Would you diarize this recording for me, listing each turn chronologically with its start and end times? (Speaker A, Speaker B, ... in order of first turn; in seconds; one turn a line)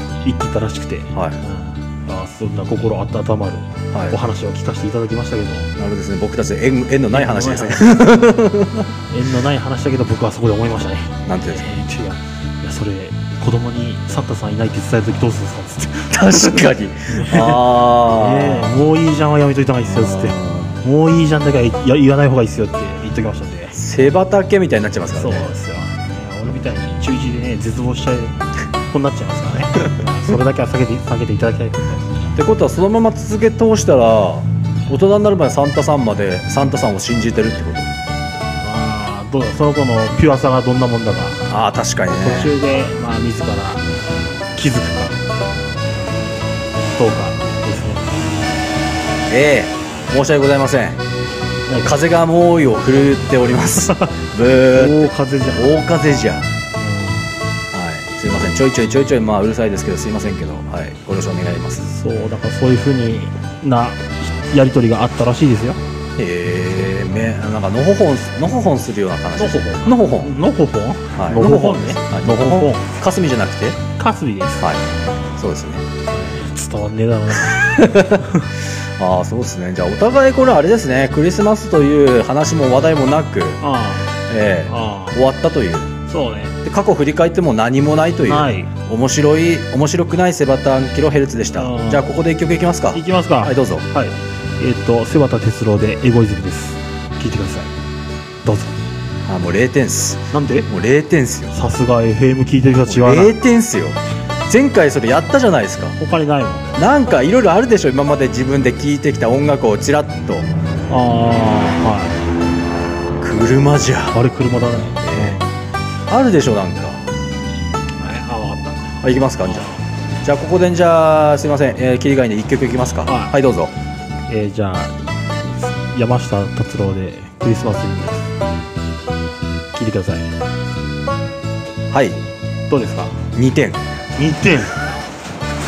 Speaker A: 0.2-5.7
Speaker B: 1.1-1.4
Speaker B: 5.8-8.9
Speaker A: 7.1-8.0
Speaker A: 9.1-23.8
Speaker B: 11.2-11.7
Speaker B: 16.1-18.8
Speaker B: 19.8-20.8
Speaker B: 23.7-25.5
Speaker A: 25.1-32.0
Speaker B: 32.4-37.9
Speaker A: 38.6-41.5
Speaker B: 41.5-42.5
Speaker A: 42.2-43.8
Speaker A: 44.5-45.2
Speaker A: 47.0-48.2
Speaker B: 49.3-51.0
Speaker A: 51.7-52.0
Speaker B: 51.8-56.5
Speaker A: 53.8-54.1
Speaker A: 54.7-55.7
Speaker A: 56.8-57.3
Speaker B: 57.7-61.9
Speaker A: 61.8-65.8
Speaker B: 66.2-70.3
Speaker A: 69.4-72.9
Speaker B: 71.2-73.8
Speaker A: 73.9-74.7
Speaker B: 74.6-75.8
Speaker A: 76.1-78.5
Speaker B: 77.4-78.3
Speaker B: 79.0-83.6
Speaker A: 83.6-84.2
Speaker B: 84.3-85.9
Speaker A: 84.7-85.2
Speaker A: 86.1-86.6
Speaker B: 86.6-93.8
Speaker A: 88.2-88.7
Speaker A: 91.5-92.1
Speaker A: 92.9-97.7
Speaker A: 98.4-98.7
Speaker B: 99.2-101.5
Speaker A: 100.3-100.7
Speaker A: 101.5-103.3
Speaker B: 102.8-106.0
Speaker A: 106.0-106.7
Speaker B: 106.8-110.5
Speaker A: 110.9-112.2
Speaker B: 113.2-114.2
Speaker A: 114.1-115.5
Speaker B: 115.0-115.4
Speaker B: 116.1-117.0
Speaker A: 118.0-119.8
Speaker B: 119.0-119.7
Speaker B: 120.2-123.7
Speaker A: 123.0-123.3
Speaker A: 124.3-128.3
Speaker A: 129.7-130.3
Speaker B: 131.9-132.2
Speaker A: 132.7-133.2
Speaker B: 133.3-133.8
Speaker A: 134.2-134.9